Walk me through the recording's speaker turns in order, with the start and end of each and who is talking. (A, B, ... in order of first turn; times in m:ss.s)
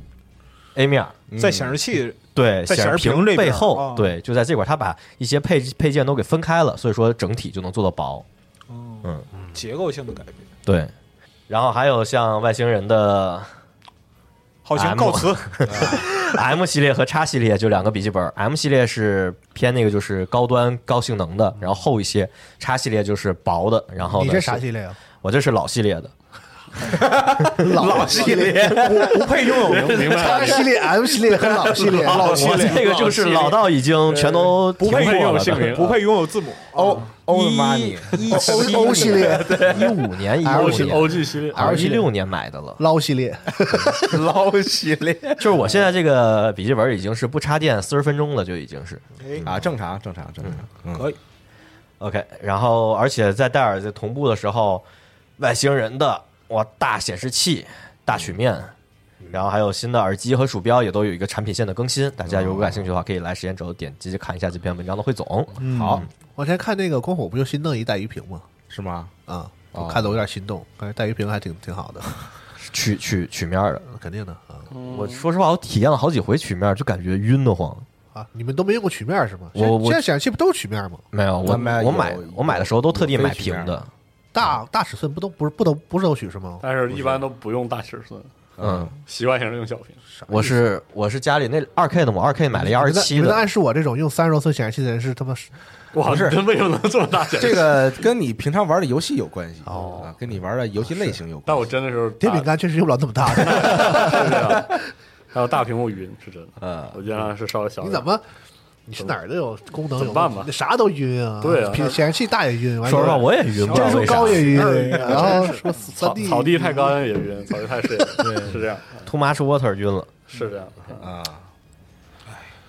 0:00.8-0:01.2 A
0:01.3-0:01.8 B
0:01.4-0:04.2 C
0:02.3-0:08.3 A
0:08.7-0:10.5 C
0:10.7-0:10.9 A
0:11.5-0:13.5 A
0:14.6-0:16.0 C
0:14.8-0:24.6 A
0:15.7-0:16.0 B
0:24.0-0:25.0 D
0:25.2-0:26.1 A
0:26.8-0:30.6 B
0:27.5-0:29.4 D
0:28.0-0:30.3 C
0:29.6-0:30.8 E
0:29.9-0:32.8 D
0:31.7-0:33.5 E
0:32.0-0:33.6 C
0:32.2-0:35.8 A
0:34.1-0:36.0 E
0:34.8-0:37.1 C
0:36.7-0:40.0 B
0:37.3-0:42.8 A
0:38.3-0:39.8 D
0:38.4-0:39.3 C
0:40.4-0:42.1 D
0:40.4-0:41.9 E
0:42.8-0:44.2 D
0:43.7-0:45.7 B
0:45.4-0:49.6 A
0:49.2-0:49.5 C
0:49.4-0:51.1 B
0:52.0-0:54.8 A
0:55.4-0:58.7 A
0:59.3-1:06.1 A
1:02.3-1:02.9 B
1:05.6-1:06.1 C
1:05.6-1:06.1 B
1:06.4-1:08.5 D
1:08.7-1:09.1 B
1:09.3-1:12.2 D
1:09.7-1:10.2 B
1:12.6-1:13.8 A
1:13.8-1:14.7 D
1:14.7-1:15.2 E
1:14.9-1:17.9 A
1:18.1-1:21.0 D
1:19.6-1:20.0 A
1:21.1-1:23.9 A
1:21.4-1:23.8 B
1:24.3-1:26.6 D
1:26.6-1:28.3 E
1:28.6-1:29.0 B
1:28.6-1:28.9 A
1:29.1-1:30.0 E
1:30.2-1:30.6 D
1:30.3-1:33.4 A
1:32.5-1:35.5 D
1:35.9-1:38.1 E
1:36.0-1:36.4 B
1:37.4-1:41.7 B
1:39.6-1:40.1 D
1:39.8-1:40.0 E
1:40.8-1:41.2 D
1:41.5-1:42.5 E
1:42.2-1:44.6 D
1:43.3-1:48.1 E
1:46.6-1:47.0 B
1:47.8-1:48.2 D
1:48.9-1:57.0 D
1:49.9-1:50.5 E
1:51.4-1:52.0 E
1:52.8-1:54.7 A
1:53.1-1:55.8 C
1:56.0-1:59.1 E
1:58.2-1:58.6 B
1:59.0-2:00.1 A
2:00.3-2:01.1 E
2:01.0-2:01.5 B